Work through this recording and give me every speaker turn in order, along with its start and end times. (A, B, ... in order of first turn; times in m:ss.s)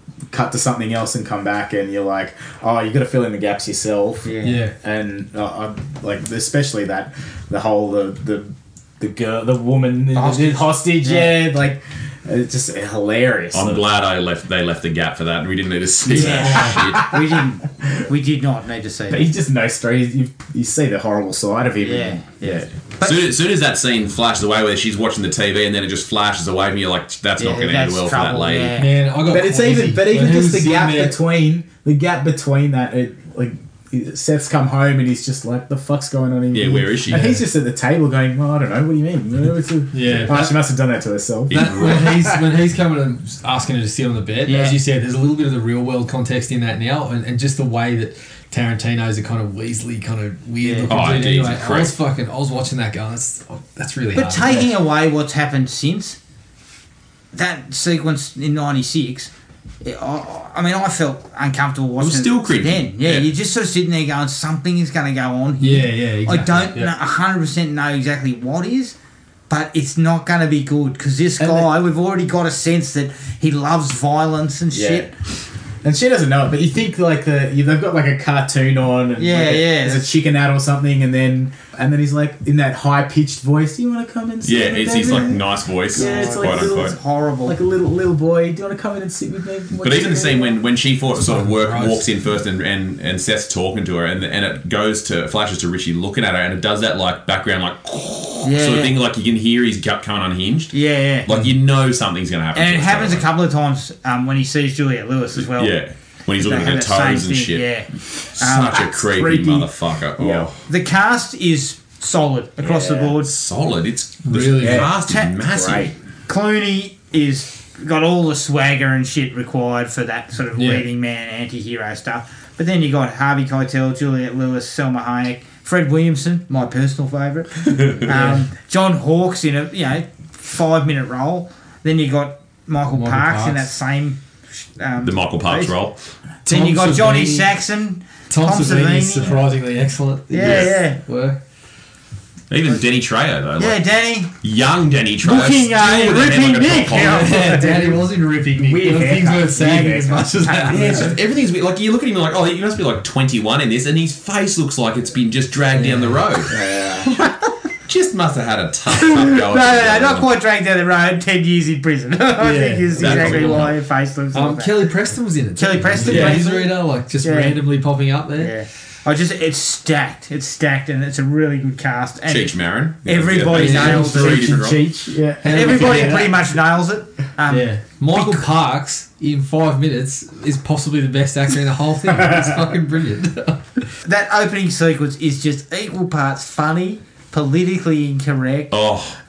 0:00.3-0:13.8 A
0:04.2-0:04.6 B
0:04.4-0:04.7 C
0:10.1-0:11.5 B
0:13.5-0:17.1 D
0:16.1-0:19.3 B
0:16.1-0:17.8 A
0:16.2-0:16.8 C
0:19.1-0:22.7 A
0:21.8-0:23.2 B
0:23.0-0:28.8 D
0:27.4-0:28.9 B
0:28.8-0:31.2 C
0:29.2-0:42.4 A
0:36.5-0:37.3 D
0:37.1-0:37.4 C
0:39.9-0:40.6 C
0:41.5-0:42.0 D
0:41.5-0:54.7 C
0:44.4-0:44.8 B
0:50.6-0:51.1 B
0:50.9-0:51.9 D
0:54.1-0:56.2 B
0:57.3-0:59.3 B
0:59.8-1:09.0 B
1:02.0-1:03.3 D
1:05.6-1:06.9 C
1:09.5-1:15.1 B
1:11.4-1:11.7 A
1:14.7-1:15.1 A
1:15.8-1:30.6 A
1:19.2-1:20.1 B
1:24.4-1:26.9 D
1:25.9-1:27.6 B
1:29.8-1:43.3 D
1:31.2-1:32.1 C
1:38.4-1:38.9 B
1:40.7-1:41.3 B
1:42.5-1:45.8 B
1:45.4-1:47.7 D
1:46.4-1:49.7 B
1:48.3-1:50.6 D
1:50.2-1:50.5 A
1:50.7-1:53.3 B
1:52.6-1:53.2 A
1:53.2-1:55.9 D
1:54.2-1:54.9 C
1:54.5-1:55.9 A
1:55.0-1:55.4 B
1:56.3-2:14.2 B
2:00.6-2:00.8 C
2:07.7-2:08.0 D
2:08.1-2:08.4 C
2:12.9-2:13.7 C
2:14.8-2:15.7 B
2:15.0-2:16.0 D
2:16.4-2:17.5 C
2:16.4-2:19.4 B
2:18.3-2:21.4 C
2:20.3-2:21.0 B
2:20.4-2:20.7 D
2:22.5-2:23.8 D
2:23.6-2:24.3 B
2:24.4-2:27.3 D
2:25.2-2:27.8 B
2:27.0-2:31.1 C
2:27.5-2:31.1 A
2:30.4-2:31.1 B
2:30.7-2:36.5 D
2:35.7-2:36.3 C
2:36.5-2:37.2 A
2:37.8-2:40.3 D
2:38.9-2:44.9 B
2:42.4-2:43.7 C
2:43.0-2:43.8 D
2:44.3-2:48.5 C
2:45.6-2:47.6 B
2:46.0-2:46.4 D
2:46.1-2:46.4 A
2:48.4-2:54.6 B
2:52.2-2:54.8 D
2:53.5-2:54.1 C
2:53.6-2:56.4 A
2:55.4-2:56.4 C
2:55.5-2:58.4 B
2:57.5-3:03.8 C
3:02.2-3:02.5 A
3:04.0-3:08.7 B
3:08.7-3:09.2 D